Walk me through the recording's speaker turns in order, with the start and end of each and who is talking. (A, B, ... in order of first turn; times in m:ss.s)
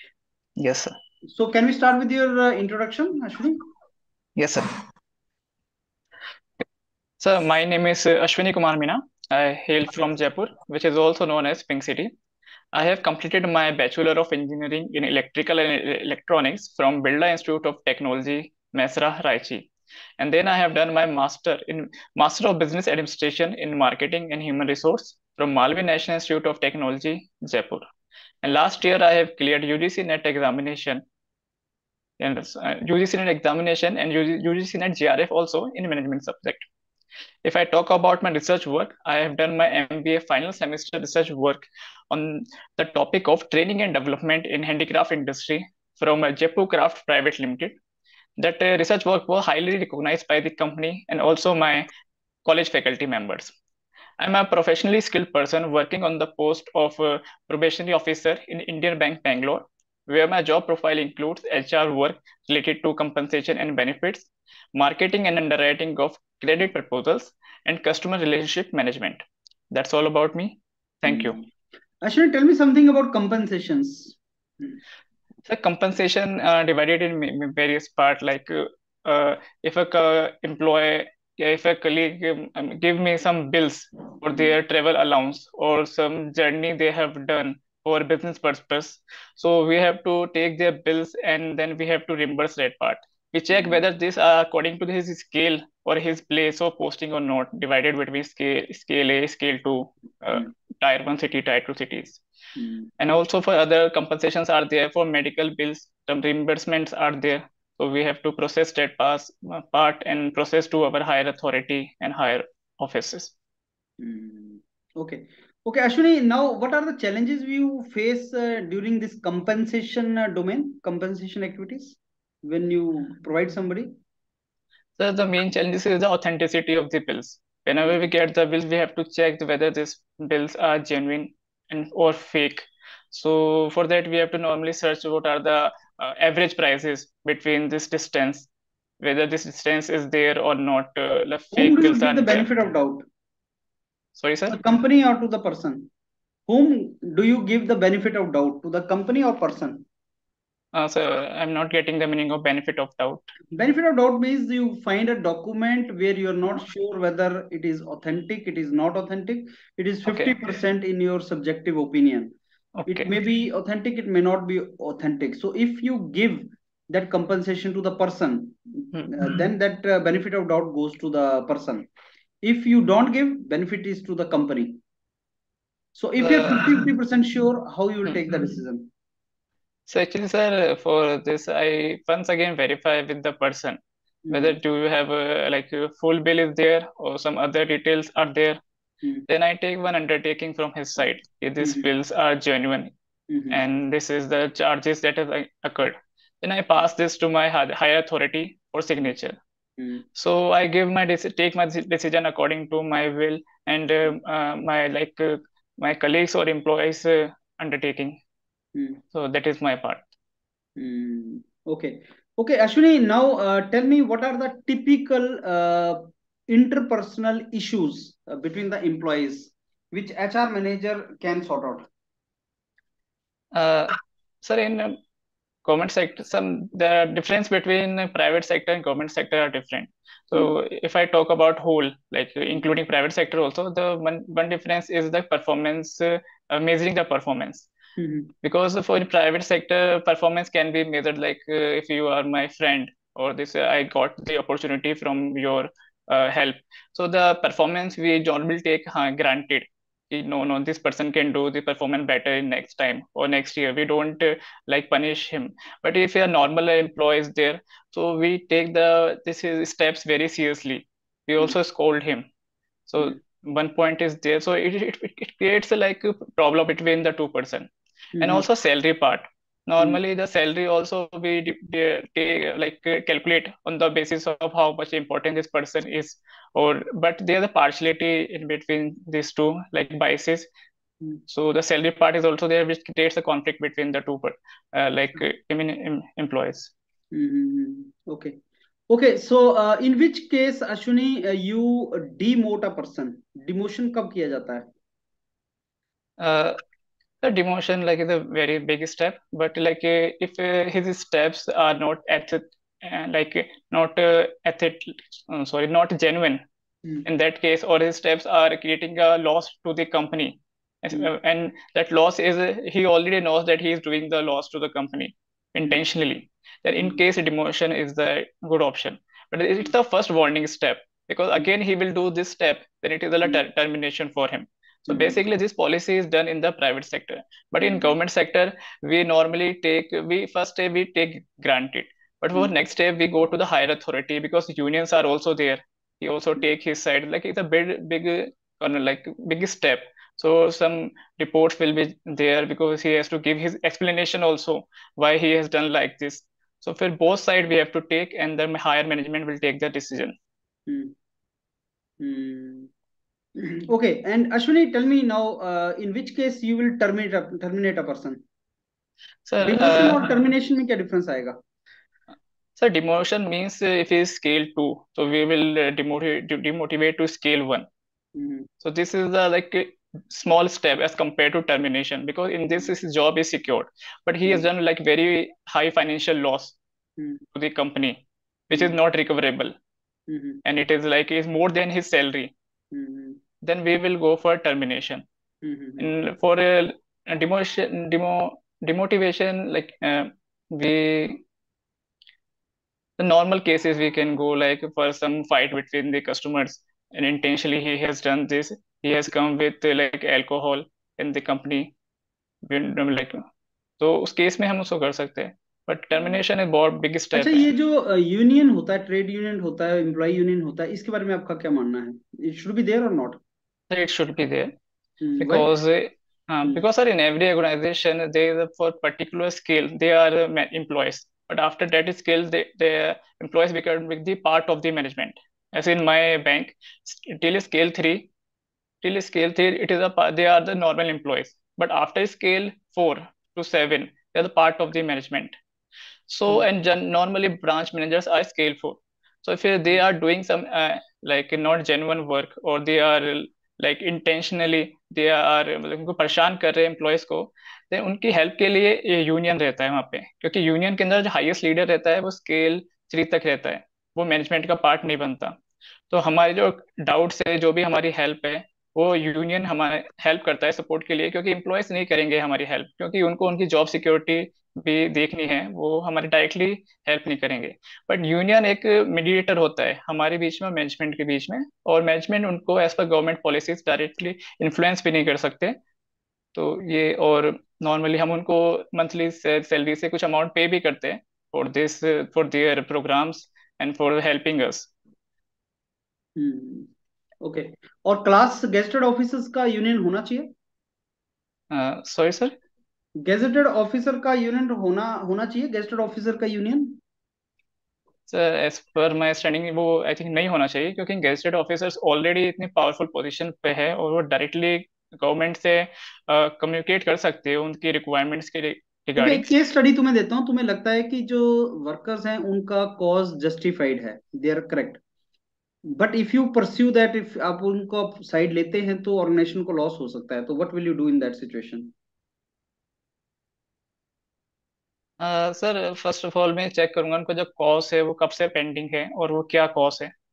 0:00.6-0:01.0 A
0:01.2-0:03.7 B
0:04.4-0:04.8 A
0:07.2-0:12.1 A
0:12.7-0:27.8 A
0:28.4-0:31.0 A
0:32.2-0:36.6 A
0:37.4-0:47.8 A
0:48.4-0:51.9 A
0:52.4-0:53.5 A
0:54.2-1:11.4 A
1:11.1-1:11.5 B
1:12.0-1:14.8 B
1:15.4-1:42.2 A
1:33.5-1:33.8 B
1:42.6-1:42.9 B
1:43.0-1:53.3 A
1:54.0-2:04.0 B
2:05.0-2:18.5 A
2:19.0-2:22.5 A
2:21.5-2:23.0 B
2:24.2-2:24.6 A
2:24.5-2:25.9 B
2:26.5-2:29.8 B
2:30.7-2:33.3 A
2:33.5-2:42.4 B
2:40.1-2:40.4 A
2:42.8-2:43.1 A
2:42.9-2:51.9 B
2:48.9-2:49.3 A
2:52.4-2:54.8 B
2:56.0-2:58.9 B
2:56.2-2:56.9 A
2:58.0-2:58.3 A
2:59.9-3:03.8 A
3:04.2-3:04.6 B
3:04.3-3:08.6 A
3:09.3-3:12.9 A
3:11.6-3:11.9 B
3:13.3-3:13.6 B
3:13.5-3:19.4 A
3:19.8-3:20.0 B
3:20.2-3:28.2 A
3:28.8-3:29.0 B
3:29.1-3:30.1 A
3:30.8-3:41.9 B
3:43.5-3:45.0 A
3:45.6-3:57.7 A
3:58.0-3:58.3 B
3:58.4-4:22.2 A
4:22.9-4:40.5 A
4:28.2-4:28.4 B
4:41.3-4:46.7 A
4:47.1-4:48.4 B
4:48.9-4:54.7 B
4:56.2-4:56.6 A
4:57.2-5:06.4 A
5:07.0-5:50.2 A
5:24.9-5:25.2 B
5:27.6-5:28.0 B
5:50.7-5:50.9 B
5:52.0-5:52.7 B
5:53.4-5:58.2 B
5:59.3-6:00.1 A
5:59.4-6:01.4 B
6:02.6-6:07.7 A
6:08.2-6:08.5 B
6:08.6-6:16.6 A
6:17.3-6:19.5 A
6:20.1-6:20.4 B
6:20.4-6:22.3 A
6:22.7-6:23.2 B
6:23.4-6:25.0 A
6:25.4-6:25.9 B
6:25.8-6:31.2 A
6:33.0-6:41.7 A
6:42.4-6:43.2 A
6:43.8-6:47.5 A
6:47.1-6:53.2 B
6:53.7-6:54.5 A
6:55.0-6:55.5 B
6:55.2-7:08.1 A
7:08.8-7:15.3 A
7:16.1-7:35.4 A
7:35.9-7:55.6 A
7:56.3-8:04.7 A
8:06.2-8:06.7 B
8:07.2-8:10.3 B
8:11.5-8:12.3 A
8:13.0-8:16.8 B
8:18.1-8:29.3 A
8:29.0-8:34.8 B
8:35.7-8:41.7 B
8:45.0-8:49.9 A